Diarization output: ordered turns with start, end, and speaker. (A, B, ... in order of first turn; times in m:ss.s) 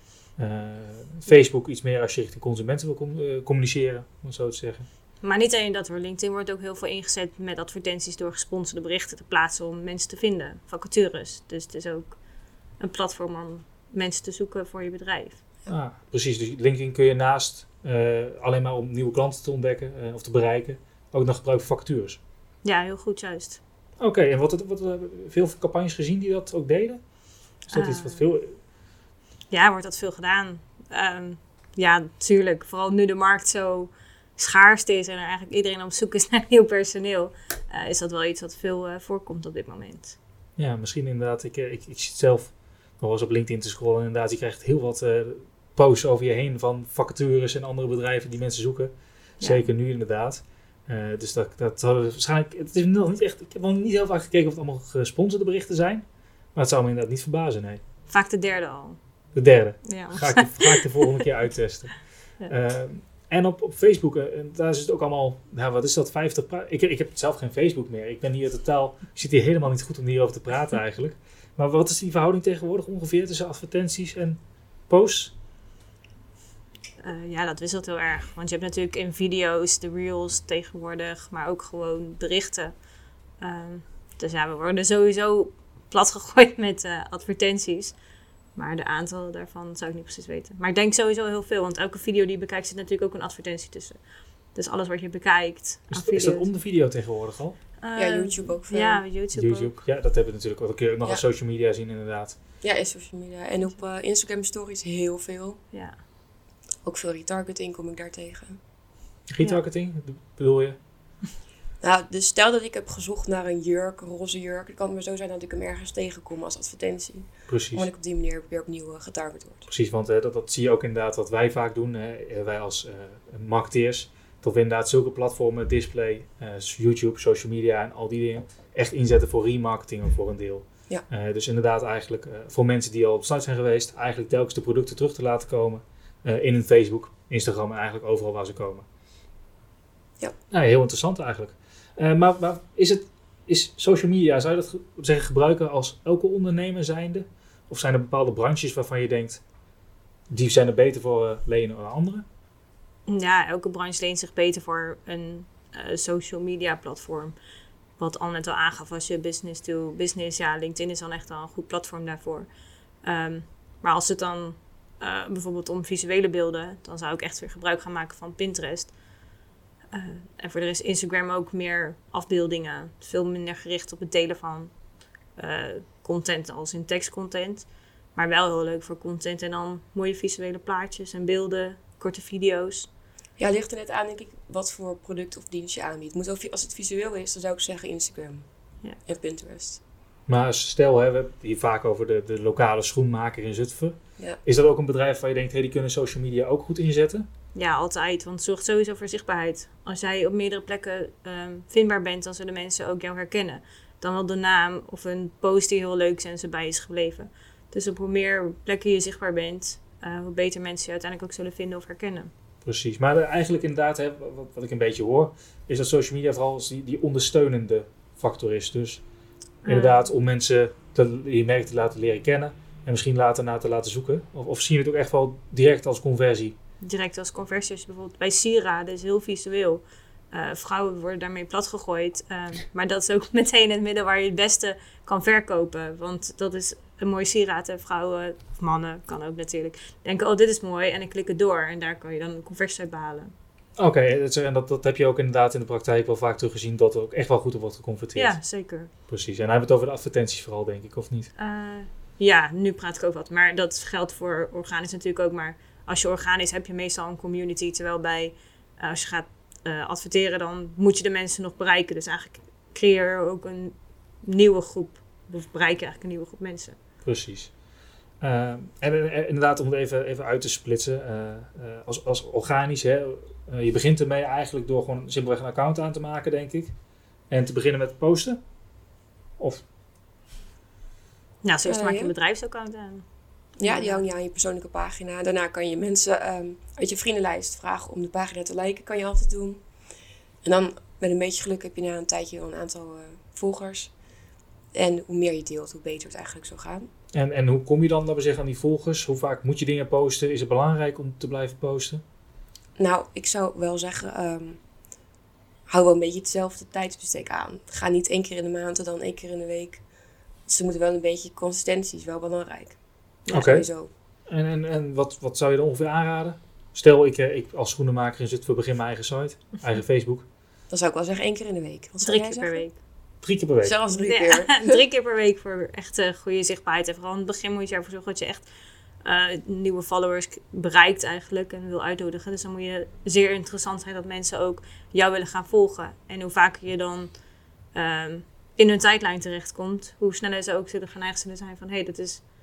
0:00.4-0:04.9 A
0:05.2-0:12.2 B
0:12.8-0:15.4 B
0:15.7-0:22.2 A
0:22.6-0:23.6 B
0:24.0-0:27.0 A
0:27.6-0:28.6 A
0:27.7-0:28.3 B
0:29.5-0:40.2 B
0:40.6-0:57.8 A
0:49.4-0:49.7 B
0:58.1-0:59.0 B
0:59.3-1:15.3 A
0:59.8-1:01.1 B
1:17.0-1:22.8 B
1:23.4-1:28.0 B
1:28.5-1:36.5 B
1:35.9-1:37.6 A
1:37.8-1:39.8 B
1:37.9-1:39.0 C
1:39.3-1:42.4 A
1:42.6-1:45.6 C
1:45.7-1:46.0 B
1:46.8-1:48.6 C
1:49.3-1:50.8 A
1:51.8-1:59.7 C
1:57.5-1:57.9 A
1:59.7-2:18.8 A
2:20.5-2:29.4 A
2:30.3-2:32.2 A
2:33.1-2:37.4 B
2:38.0-2:42.5 B
2:43.0-2:49.0 B
2:49.9-2:54.8 B
2:55.3-3:02.9 B
3:03.4-3:08.5 C
3:09.0-3:09.8 C
3:10.3-3:17.2 A
3:17.5-3:32.3 B
3:32.6-3:39.0 A
3:39.6-3:40.0 B
3:39.6-3:46.6 A
3:46.8-4:03.3 B
4:03.8-4:08.4 A
4:08.1-4:08.9 B
4:09.1-4:11.3 A
4:11.4-4:26.8 B
4:27.0-4:27.5 A
4:28.2-4:36.7 A
4:37.3-4:38.4 A
4:41.4-4:44.0 B
4:41.6-4:42.1 C
4:43.6-4:49.7 C
4:50.4-4:54.0 C
4:54.7-4:56.9 C
4:57.1-5:02.0 A
5:02.8-5:04.6 C
5:05.7-5:09.8 C
5:10.5-5:13.9 C
5:13.3-5:13.7 A
5:14.3-5:20.2 A
5:20.7-5:22.6 C
5:22.0-5:22.8 B
5:23.2-5:23.8 A
5:23.6-5:24.8 C
5:23.9-5:28.5 B
5:29.0-5:37.2 B
5:37.7-5:42.2 B